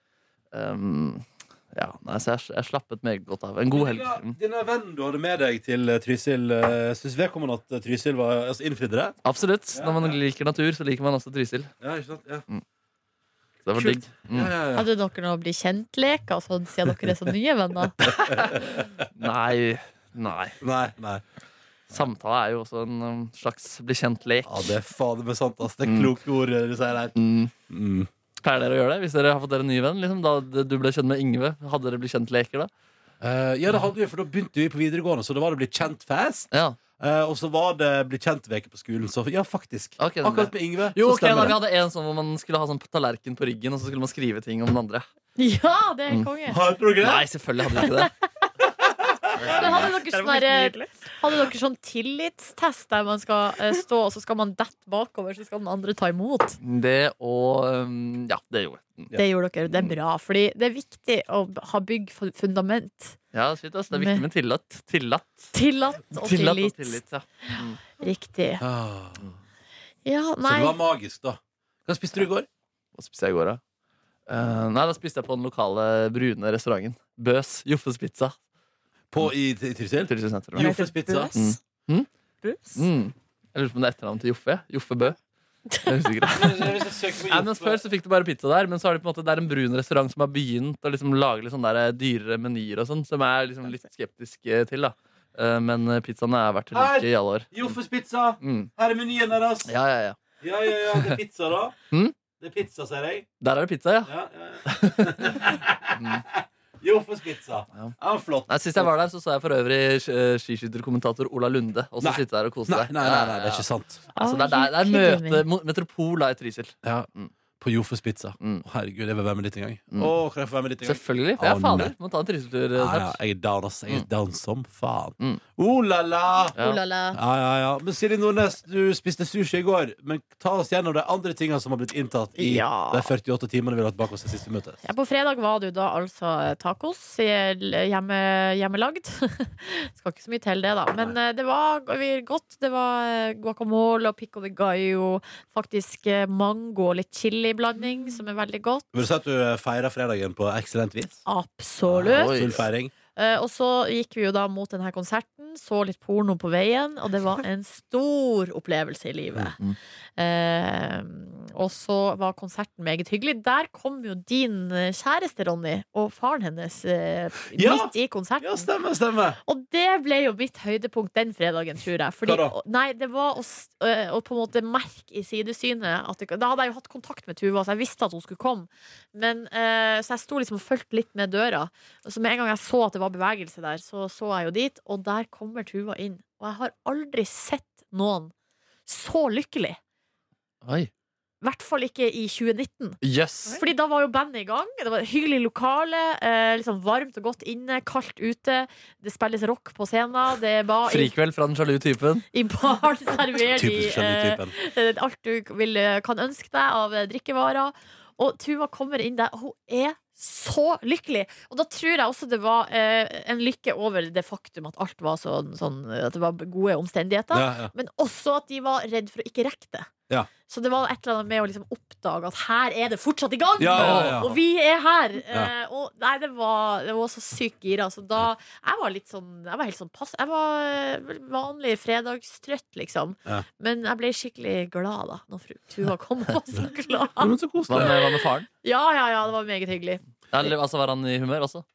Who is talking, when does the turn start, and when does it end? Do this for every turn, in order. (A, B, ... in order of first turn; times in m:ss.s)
0:00.5-0:04.4 A
0:03.7-0:09.2 B
0:09.2-0:11.7 A
0:09.7-0:10.2 B
0:11.8-0:12.4 B
0:13.6-0:14.5 A
0:13.7-0:14.9 B
0:14.7-0:18.0 C
0:18.0-0:19.1 B
0:18.0-0:20.6 A
0:20.6-0:21.2 B
0:21.9-0:24.7 A
0:24.4-0:27.2 B
0:25.8-0:26.1 A
0:27.2-0:27.5 A
0:27.7-0:28.1 B
0:28.4-0:32.7 A
0:33.2-0:41.6 B
0:36.5-0:36.8 A
0:40.0-0:45.1 A
0:45.4-0:46.6 C
0:46.5-0:47.3 B
0:47.0-0:48.1 A
0:47.8-0:48.1 C
0:48.6-0:49.9 B
0:49.4-0:56.6 C
0:49.6-0:50.9 D
0:56.6-0:59.1 A
0:59.1-1:03.2 C
1:03.3-1:05.5 A
1:03.9-1:04.2 C
1:05.5-1:08.6 C
1:06.1-1:07.8 A
1:08.6-1:09.2 B
1:10.0-1:10.8 C
1:10.4-1:12.5 B
1:13.0-1:13.6 A
1:14.3-1:18.4 A
1:19.1-1:21.3 B
1:20.0-1:20.7 A
1:20.6-1:21.6 D
1:21.3-1:22.1 A
1:22.4-1:22.9 D
1:22.8-1:25.2 A
1:25.8-1:37.7 A
1:26.3-1:27.8 B
1:36.7-1:39.7 B
1:38.4-1:38.7 A
1:39.6-1:40.2 A
1:40.4-1:41.8 B
1:40.8-1:41.2 A
1:42.4-1:43.3 B
1:43.4-1:44.1 A
1:44.0-1:48.9 B
1:44.6-1:46.2 A
1:48.5-1:53.6 A
1:52.0-1:54.0 B
1:54.1-1:55.4 C
1:54.1-1:57.3 A
1:56.8-2:01.9 B
2:00.8-2:03.2 A
2:02.8-2:06.6 B
2:06.6-2:07.2 C
2:07.1-2:14.8 B
2:12.4-2:13.1 C
2:14.8-2:28.9 C
2:28.9-2:31.2 B
2:31.2-2:32.4 C
2:31.9-2:32.6 A
2:31.9-2:32.9 B
2:33.2-2:39.6 C
2:40.2-2:48.7 C
2:47.5-2:49.4 B
2:49.4-3:08.3 C
2:52.2-2:52.5 B
3:08.8-3:09.8 C
3:10.6-3:10.9 A
3:11.4-3:13.0 C
3:13.0-3:13.6 A
3:13.5-3:21.1 C
3:20.9-3:22.2 A
3:22.3-3:39.9 C
3:23.5-3:24.5 B
3:37.3-3:37.7 B
3:40.5-3:57.9 C
3:43.6-3:44.4 B
3:43.7-3:44.3 A
3:57.2-3:58.0 B
3:57.7-3:58.5 A
3:58.6-4:00.5 C
4:00.3-4:01.6 A